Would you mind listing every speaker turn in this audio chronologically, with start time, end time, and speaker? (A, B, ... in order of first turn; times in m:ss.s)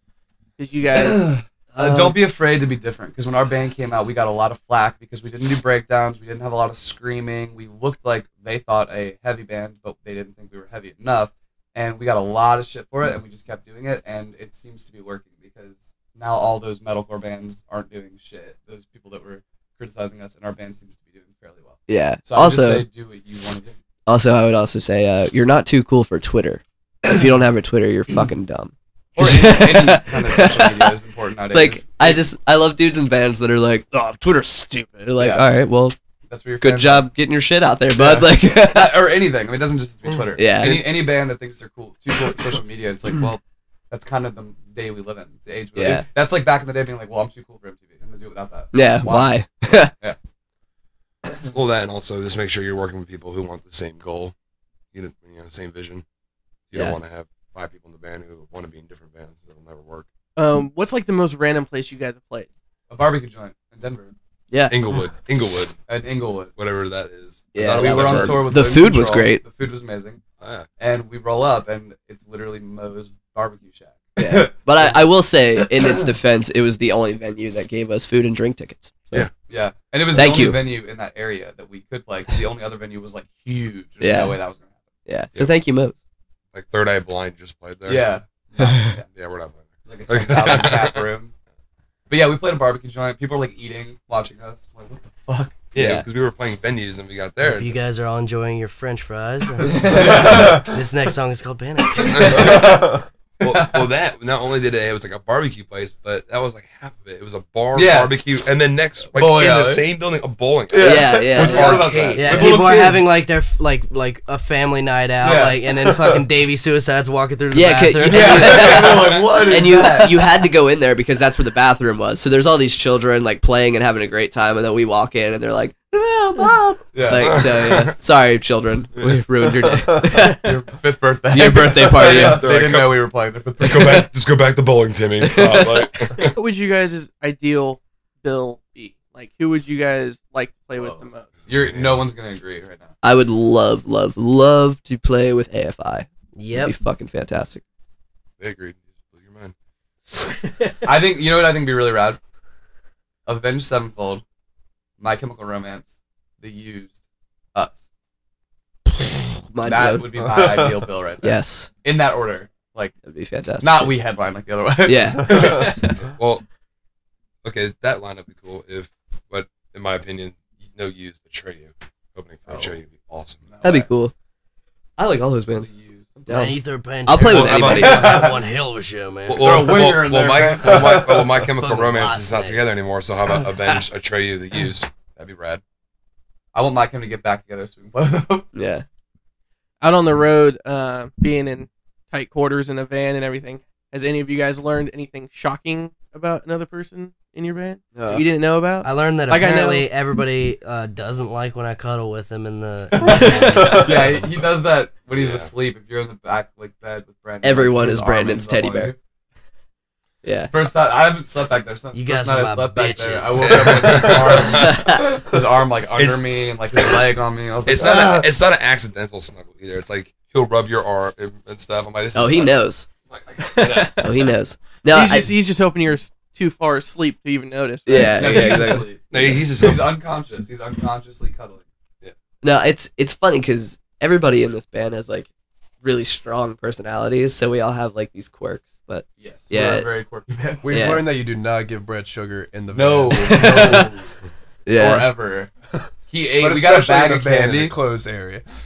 0:00.6-0:01.3 A
0:00.9-0:23.8 B
0:01.7-0:02.2 C
0:21.9-0:22.8 C
0:24.1-0:30.9 C
0:29.2-0:32.2 B
0:31.5-0:36.0 C
0:35.2-0:35.4 B
0:36.3-0:37.1 B
0:36.6-0:39.0 C
0:37.9-0:49.4 B
0:40.4-0:40.8 C
0:40.6-0:40.9 D
0:45.8-0:46.0 C
0:48.7-0:49.9 C
0:51.5-0:54.3 D
0:54.9-0:56.0 D
0:56.7-1:00.1 D
1:00.4-1:02.5 A
1:02.9-1:04.1 B
1:04.5-1:04.8 C
1:04.7-1:05.8 D
1:05.9-1:06.5 B
1:06.6-1:08.6 D
1:07.5-1:09.4 C
1:07.8-1:10.2 B
1:10.4-1:10.7 D
1:10.8-1:15.0 B
1:14.2-1:19.3 C
1:15.6-1:16.1 B
1:19.5-1:24.8 B
1:20.1-1:20.7 C
1:24.0-1:24.4 C
1:25.1-1:26.0 C
1:26.5-1:28.1 D
1:27.8-1:29.1 B
1:29.1-1:31.0 D
1:29.8-1:31.3 B
1:32.1-1:35.7 B
1:35.7-1:37.8 D
1:35.8-1:36.0 C
1:37.4-1:42.6 E
1:39.9-1:40.7 B
1:42.0-1:42.8 B
1:42.1-1:42.8 D
1:42.6-1:43.0 F
1:43.4-1:52.7 D
1:43.4-1:43.9 B
1:47.7-1:48.1 B
1:49.1-1:49.8 B
1:50.7-1:53.0 B
1:50.8-1:51.9 C
1:52.1-1:58.9 E
1:55.2-1:56.2 B
1:57.5-2:10.5 C
1:58.0-2:00.2 B
1:59.6-1:59.9 E
2:06.9-2:07.5 B
2:07.2-2:07.9 D
2:09.7-2:10.2 F
2:10.3-2:14.1 B
2:11.3-2:12.4 C
2:12.0-2:13.1 D
2:13.6-2:16.3 D
2:16.3-2:21.3 A
2:20.8-2:22.9 B
2:21.4-2:22.0 D
2:23.0-2:27.6 C
2:26.3-2:26.7 E
2:28.4-2:29.5 D
2:30.8-2:32.2 B
2:33.2-2:34.2 B
2:35.0-2:37.0 B
2:37.5-2:37.8 B
2:39.5-2:40.0 C
2:39.6-2:42.9 B
2:40.1-2:40.9 F
2:41.2-2:41.7 C
2:43.0-2:43.9 C
2:43.6-2:46.1 B
2:44.8-2:46.0 C
2:46.0-2:46.4 D
2:47.4-2:53.4 D
2:52.5-2:52.8 B
2:53.4-2:53.9 B
2:53.6-2:54.1 C
2:55.0-2:55.7 C
2:55.6-2:56.3 B
2:56.2-2:56.5 C
2:56.3-2:59.4 E
2:57.1-2:58.2 C
2:57.2-2:58.3 D
2:57.8-2:58.4 B
2:59.3-3:05.6 D
2:59.4-3:01.2 B
3:01.4-3:02.6 E
3:06.5-3:08.5 B
3:08.5-3:08.8 C
3:09.8-3:19.8 A
3:17.9-3:18.2 C
3:18.8-3:23.9 E
3:22.9-3:29.0 B
3:23.5-3:24.1 F
3:25.1-3:25.5 D
3:27.4-3:28.9 C
3:30.2-3:30.5 C
3:30.5-3:38.3 B
3:31.9-3:33.7 E
3:33.5-3:34.8 D
3:34.4-3:35.0 C
3:35.9-3:37.0 D
3:37.6-3:44.3 D
3:42.1-3:42.9 C
3:43.5-3:45.3 C
3:44.8-3:48.7 A
3:47.8-3:48.9 C
3:48.0-3:51.6 B
3:49.1-3:49.9 D
3:52.4-3:55.3 C
3:55.8-3:59.9 C
3:59.2-4:00.7 B
4:00.6-4:03.5 F
4:00.7-4:01.0 C
4:02.7-4:04.1 B
4:03.2-4:03.9 C
4:04.6-4:05.1 C
4:04.7-4:05.5 B
4:06.1-4:07.7 B
4:06.4-4:08.4 F